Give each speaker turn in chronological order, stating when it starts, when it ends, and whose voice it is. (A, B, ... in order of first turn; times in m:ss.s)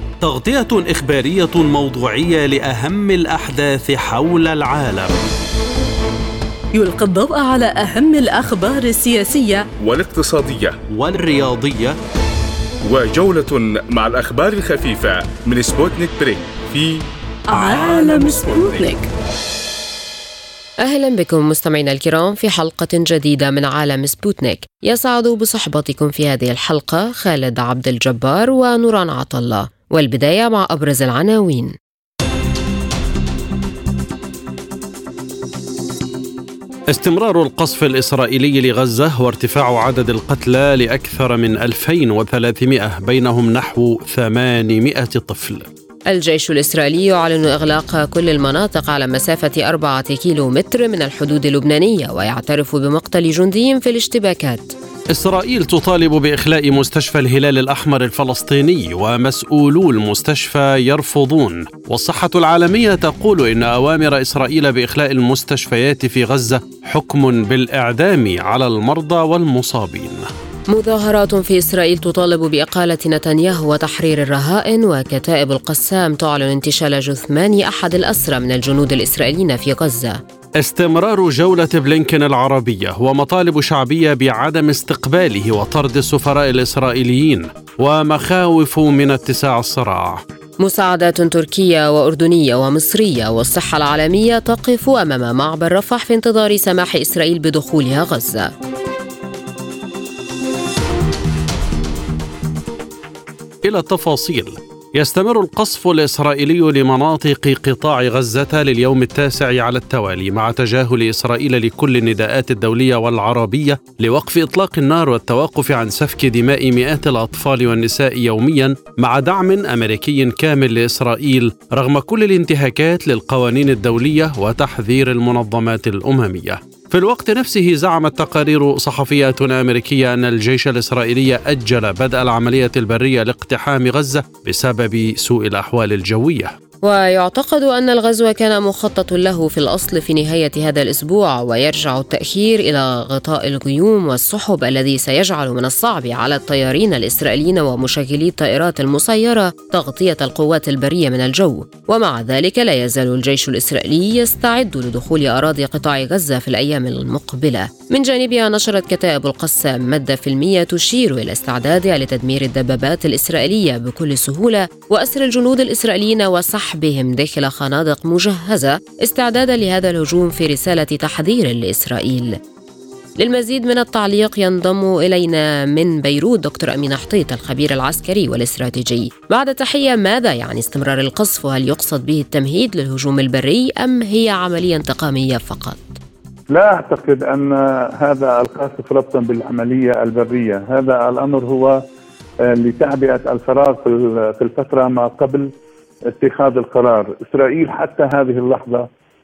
0:00.2-0:05.2 A
0:06.7-0:09.6 B
0:09.8-0:10.8 C
0:10.9-0:12.0 A
0:12.9-0:18.9 C
0:17.5-0:19.0 B
0:20.8-0:31.7 D
0:36.9-0:45.7 A
0:46.1-0:54.7 D
0:55.1-1:10.3 A
1:10.7-1:20.2 D
1:20.6-1:30.2 A
1:30.6-1:38.5 D
1:43.6-2:16.5 A
2:16.8-2:52.4 D
2:53.2-3:06.0 D
3:06.5-3:11.8 E
3:12.4-3:15.5 E
3:16.1-3:18.9 E